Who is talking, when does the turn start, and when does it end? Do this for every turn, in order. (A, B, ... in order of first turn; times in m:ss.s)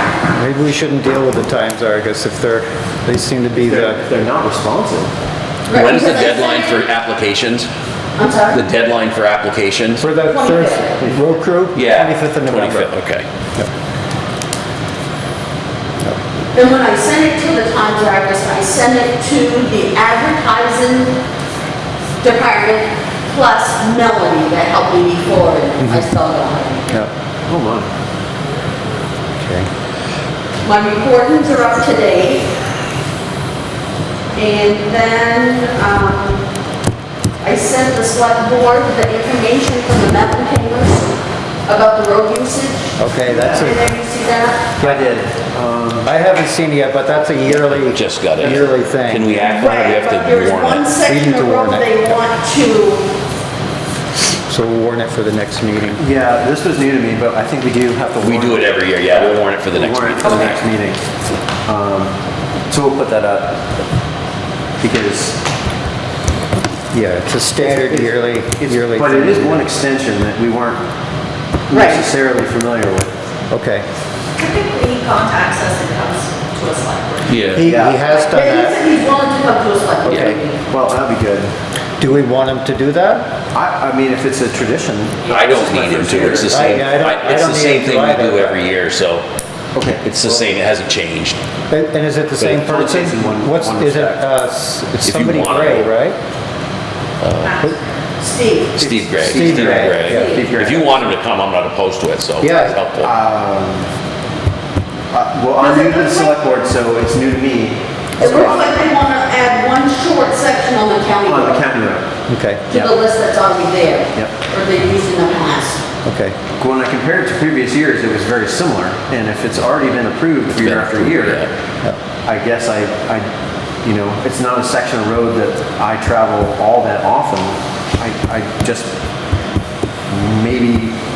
0:00.3-0:04.0 A
0:03.6-0:05.1 B
0:05.7-0:06.8 C
0:05.7-0:07.7 D
0:08.2-0:08.6 C
0:08.5-0:10.1 D
0:10.0-0:12.9 A
0:10.3-0:11.1 C
0:11.7-0:13.3 D
0:16.5-0:21.2 C
0:22.2-0:26.9 C
0:25.8-0:26.1 A
0:27.5-0:27.9 B
0:29.4-0:29.7 A
0:30.6-0:32.5 C
0:34.4-0:36.5 C
0:37.4-0:41.1 C
0:41.7-0:43.0 C
0:43.0-0:43.8 A
0:43.3-0:43.8 B
0:43.5-0:44.8 C
0:44.8-0:45.1 A
0:44.8-0:46.1 B
0:46.0-0:49.3 A
0:47.7-0:50.9 D
0:49.4-0:53.1 C
0:51.0-0:52.2 A
0:54.5-0:56.0 A
0:56.0-1:01.0 B
0:58.2-1:00.6 D
1:01.7-1:02.1 B
1:02.7-1:03.6 B
1:04.8-1:05.4 B
1:06.9-1:09.6 A
1:07.6-1:10.8 B
1:11.7-1:13.1 B
1:11.7-1:12.0 C
1:13.5-1:13.8 A
1:14.4-1:17.9 E
1:17.3-1:17.6 D
1:17.5-1:18.8 A
1:17.6-1:18.0 B
1:18.1-1:20.6 C
1:20.0-1:20.4 A
1:20.1-1:20.3 D
1:20.7-1:21.5 B
1:22.0-1:23.3 A
1:23.5-1:26.5 B
1:25.3-1:29.3 D
1:26.5-1:28.6 A
1:29.7-1:30.5 B
1:30.0-1:31.4 D
1:31.7-1:36.2 A
1:32.4-1:34.2 B
1:35.0-1:35.9 D
1:37.2-1:37.7 D
1:37.4-1:37.8 E
1:38.2-1:38.8 C
1:38.8-1:43.1 D
1:38.8-1:41.1 B
1:39.2-1:40.3 A
1:40.1-1:40.5 C
1:42.4-1:42.8 A
1:43.0-1:43.9 B
1:45.1-1:48.7 B
1:45.6-1:46.3 C
1:48.2-1:48.5 A
1:48.2-1:51.6 C
1:51.3-1:52.1 B
1:52.3-1:52.7 A
1:52.7-1:55.8 C
1:56.0-1:56.4 A
1:56.6-2:01.5 B
2:00.6-2:01.5 D
2:02.2-2:03.3 B
2:03.8-2:08.9 B
2:10.1-2:11.0 B